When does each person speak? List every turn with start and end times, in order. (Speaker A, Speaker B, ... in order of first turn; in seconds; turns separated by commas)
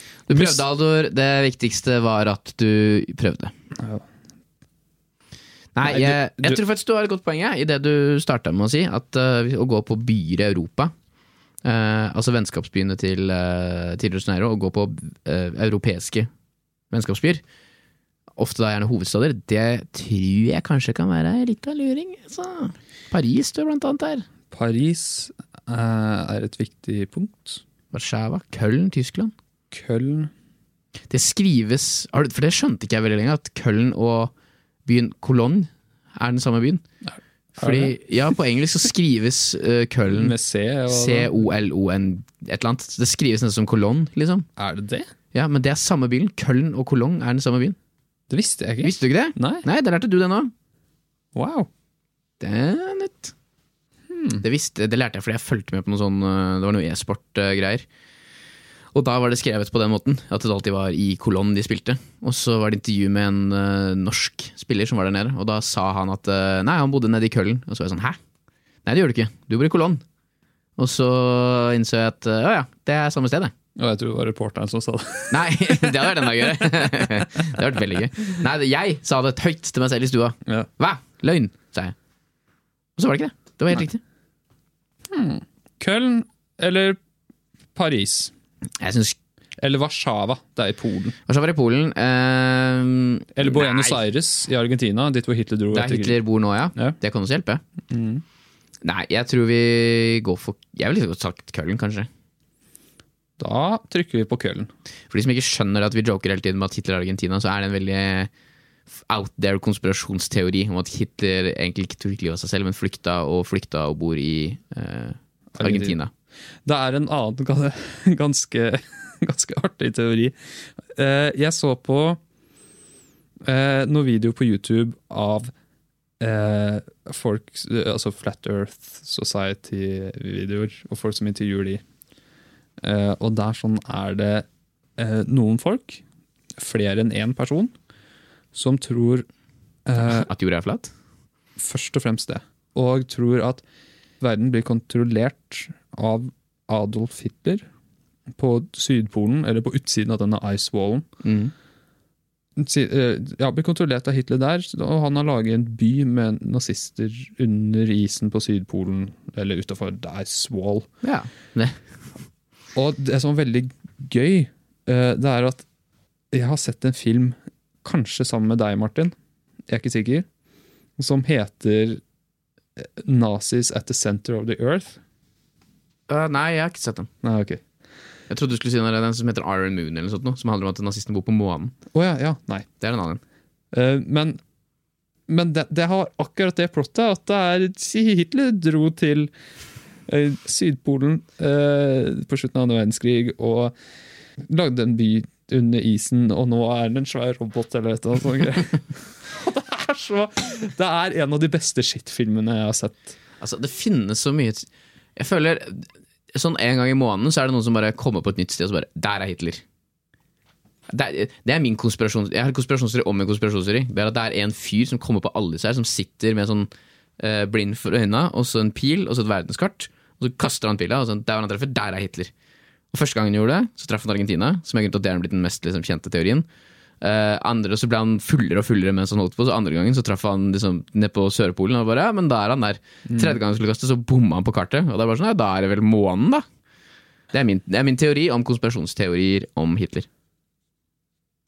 Speaker A: 0.3-3.5, Speaker B: 0.3-0.6, Speaker B: 3.8-4.0, Speaker A: 5.8-10.9, Speaker B: 5.8-6.6, Speaker A: 11.6-16.3, Speaker A: 16.9-17.4, Speaker A: 18.4-24.2, Speaker B: 24.5-27.6, Speaker A: 27.9-29.3, Speaker B: 29.7-30.3, Speaker A: 31.1-34.3, Speaker A: 34.9-36.8, Speaker B: 37.1-38.0, Speaker A: 37.5-40.3, Speaker B: 40.1-41.3, Speaker A: 40.9-44.5, Speaker B: 44.6-45.1, Speaker A: 45.3-47.8, Speaker B: 48.3-49.6, Speaker A: 48.8-50.5, Speaker B: 51.3-51.7, Speaker A: 52.4-53.3, Speaker B: 54.1-54.4, Speaker A: 54.4-57.9, Speaker A: 58.9-68.2, Speaker A: 68.8-70.0, Speaker A: 70.8-73.5, Speaker B: 73.8-77.7, Speaker A: 75.3-81.9, Speaker A: 83.0-84.0, Speaker B: 85.1-87.0, Speaker B: 87.8-88.3, Speaker A: 88.8-89.2, Speaker B: 89.6-91.1, Speaker A: 91.2-94.0, Speaker B: 93.3-96.2, Speaker A: 95.7-97.6, Speaker B: 97.9-98.2, Speaker A: 98.8-102.1, Speaker B: 103.4-104.7, Speaker A: 105.1-108.3, Speaker A: 109.1-116.1, Speaker B: 115.5-116.0, Speaker B: 116.6-120.3, Speaker B: 120.9-122.2, Speaker B: 123.4-125.5, Speaker B: 126.2-131.8, Speaker B: 132.8-134.4, Speaker B: 135.0-136.0, Speaker B: 136.6-137.7, Speaker B: 138.5-139.2, Speaker B: 139.8-140.3, Speaker A: 140.0-140.9, Speaker B: 141.6-143.6, Speaker B: 144.2-147.6, Speaker B: 148.3-151.1, Speaker A: 151.2-151.5, Speaker B: 152.6-160.9, Speaker A: 161.0-161.8, Speaker B: 162.8-165.6, Speaker B: 166.3-169.1, Speaker B: 169.7-170.2, Speaker B: 171.0-172.0, Speaker B: 172.8-175.0, Speaker A: 176.1-177.1, Speaker B: 177.2-177.6, Speaker A: 178.3-181.8, Speaker B: 181.9-182.7, Speaker A: 182.8-183.2, Speaker B: 183.7-184.4, Speaker B: 185.3-189.3, Speaker B: 190.1-193.8, Speaker B: 194.4-203.2, Speaker A: 203.4-209.6, Speaker A: 210.9-222.3, Speaker A: 222.9-226.5, Speaker A: 227.0-236.4, Speaker B: 233.1-233.4, Speaker A: 237.3-240.1